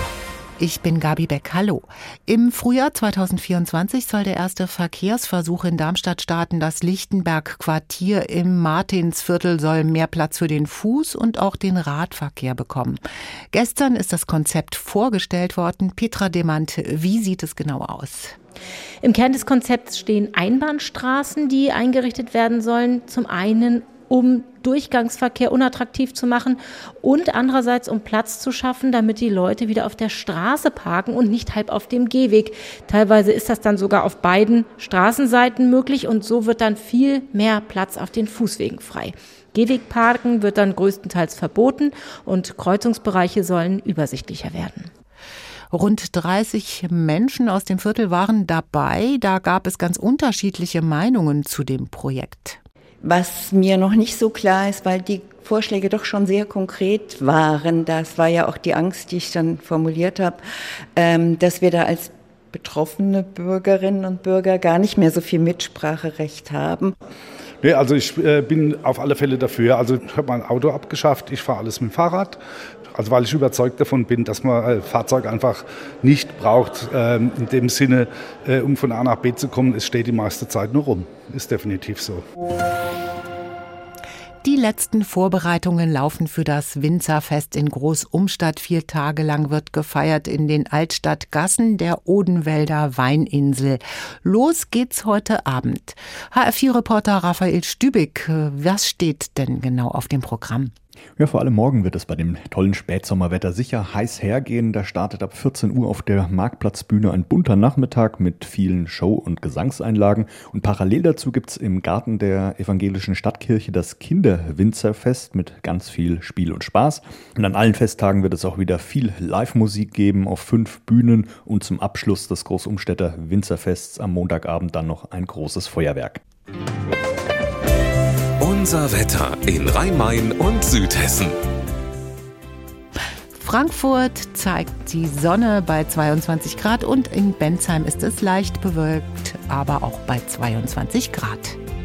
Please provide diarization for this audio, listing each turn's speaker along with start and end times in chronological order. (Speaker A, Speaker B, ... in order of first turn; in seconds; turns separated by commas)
Speaker A: 0.6-13.0, Speaker A: 13.5-18.4, Speaker B: 19.0-44.9, Speaker A: 45.7-52.6, Speaker C: 53.0-60.4, Speaker C: 61.0-66.9, Speaker D: 67.6-72.4, Speaker D: 72.9-82.2, Speaker A: 84.4-100.7, Speaker E: 101.2-126.2, Speaker F: 128.4-131.4, Speaker A: 133.3-141.6